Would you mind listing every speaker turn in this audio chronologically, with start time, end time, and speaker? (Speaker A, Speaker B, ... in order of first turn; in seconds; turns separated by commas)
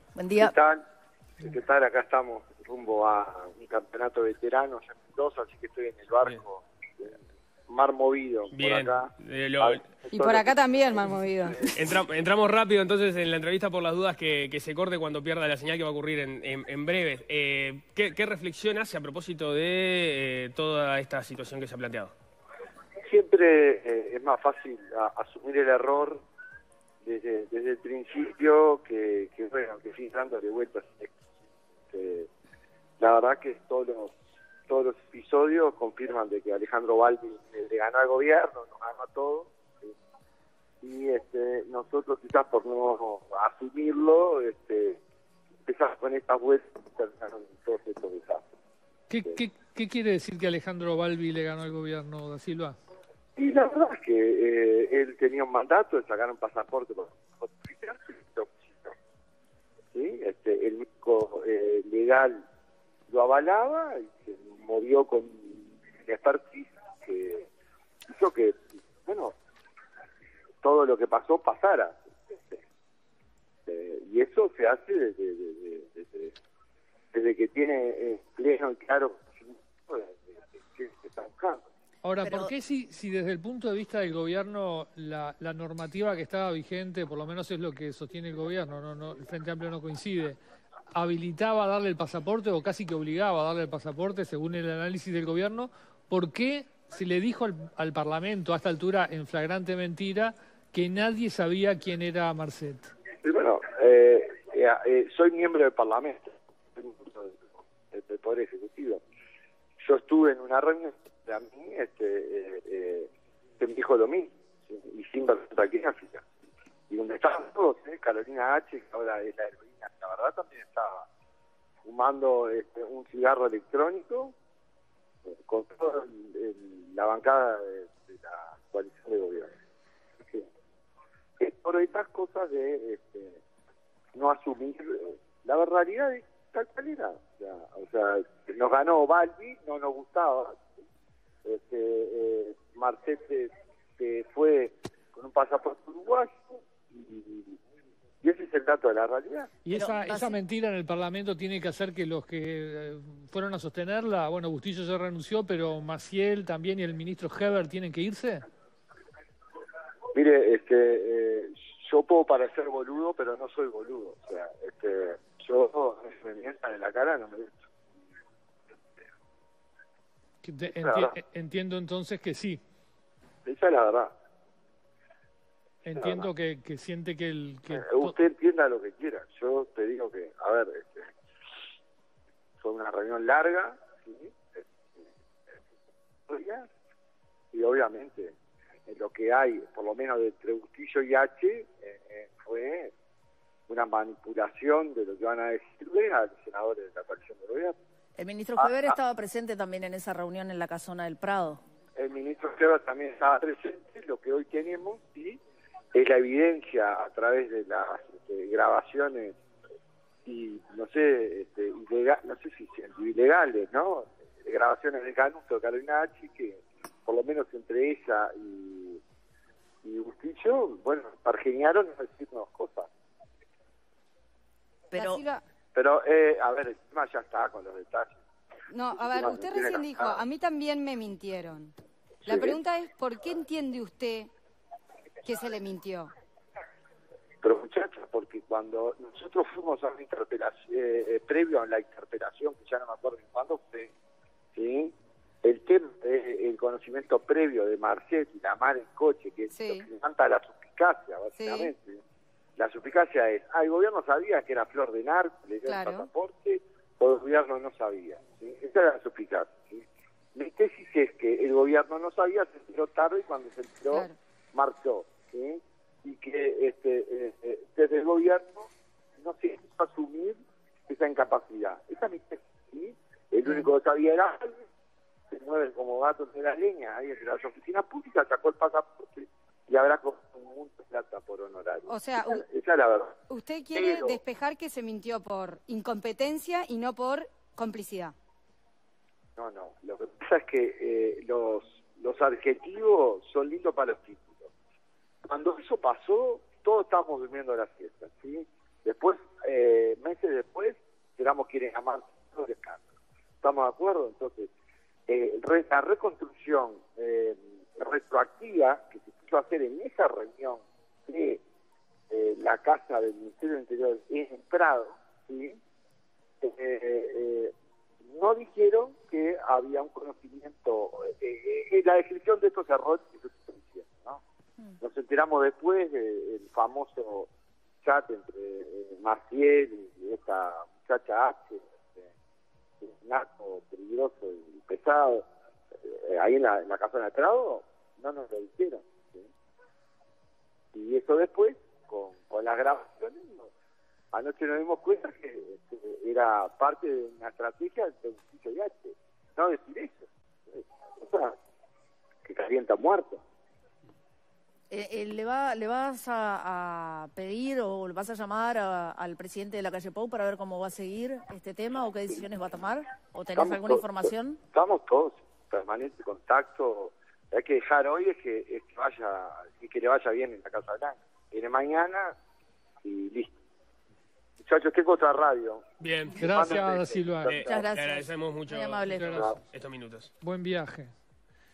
Speaker A: 0.2-0.5, Speaker B: 0.4-0.9, Speaker B: 1.4-7.1, Speaker B: 7.7-11.7, Speaker C: 8.5-9.9, Speaker D: 10.1-11.7, Speaker C: 11.7-22.1, Speaker B: 23.1-26.2, Speaker B: 27.0-31.1, Speaker B: 31.9-32.3, Speaker B: 33.0-34.1, Speaker B: 34.7-39.9, Speaker B: 40.8-45.0, Speaker B: 45.6-48.5, Speaker E: 49.1-52.8, Speaker B: 53.4-58.9, Speaker B: 59.9-62.4, Speaker B: 63.1-67.5, Speaker B: 68.1-69.3, Speaker B: 70.6-72.6, Speaker B: 73.7-76.3, Speaker B: 77.1-81.6, Speaker E: 82.0-90.4, Speaker A: 82.2-82.5, Speaker E: 90.9-102.9, Speaker B: 103.2-109.0, Speaker B: 109.8-116.3, Speaker B: 116.9-121.1, Speaker B: 121.8-124.3, Speaker B: 125.3-129.5, Speaker B: 131.4-133.4, Speaker B: 134.2-140.6, Speaker B: 141.4-147.6, Speaker B: 148.2-149.5, Speaker E: 149.7-158.5, Speaker A: 149.7-150.4, Speaker B: 160.1-167.6, Speaker E: 170.4-172.6, Speaker B: 170.8-171.2, Speaker B: 173.4-174.1, Speaker E: 175.8-178.1, Speaker B: 175.9-176.3, Speaker B: 177.7-181.1, Speaker B: 182.6-185.0, Speaker B: 186.3-186.7, Speaker B: 187.5-188.4, Speaker B: 188.9-192.9, Speaker B: 193.7-197.8, Speaker A: 198.2-201.6, Speaker B: 198.6-199.0, Speaker B: 202.0-205.4, Speaker B: 205.9-209.4, Speaker B: 210.3-219.0, Speaker B: 219.8-222.9, Speaker A: 224.9-225.2, Speaker D: 224.9-225.4, Speaker B: 225.7-228.2, Speaker D: 228.7-231.8, Speaker B: 228.9-230.2, Speaker B: 232.2-232.6, Speaker D: 232.3-234.3, Speaker D: 235.2-236.1, Speaker B: 237.4-243.9, Speaker B: 244.6-252.0, Speaker D: 249.5-249.9, Speaker D: 251.4-251.7, Speaker B: 252.6-259.8, Speaker D: 255.7-256.1, Speaker B: 260.4-274.6, Speaker D: 263.9-264.2, Speaker B: 275.3-283.2, Speaker D: 281.9-282.4, Speaker D: 283.3-288.1, Speaker B: 283.7-284.2, Speaker B: 289.4-294.5, Speaker B: 295.3-302.8, Speaker B: 303.4-304.5, Speaker B: 305.1-311.4, Speaker B: 312.1-315.6, Speaker B: 316.4-317.5, Speaker B: 318.1-324.2, Speaker B: 324.8-327.3, Speaker B: 327.8-332.1, Speaker B: 332.8-335.3, Speaker B: 335.8-339.3, Speaker B: 340.7-343.5, Speaker B: 344.1-351.4, Speaker B: 352.2-353.2, Speaker A: 354.7-364.4, Speaker B: 363.4-372.1, Speaker B: 372.8-373.3, Speaker B: 374.4-375.6, Speaker C: 375.8-376.2, Speaker B: 376.2-377.7, Speaker E: 376.2-377.4, Speaker C: 377.3-380.1, Speaker A: 377.4-379.2, Speaker E: 378.9-379.4, Speaker E: 380.2-380.9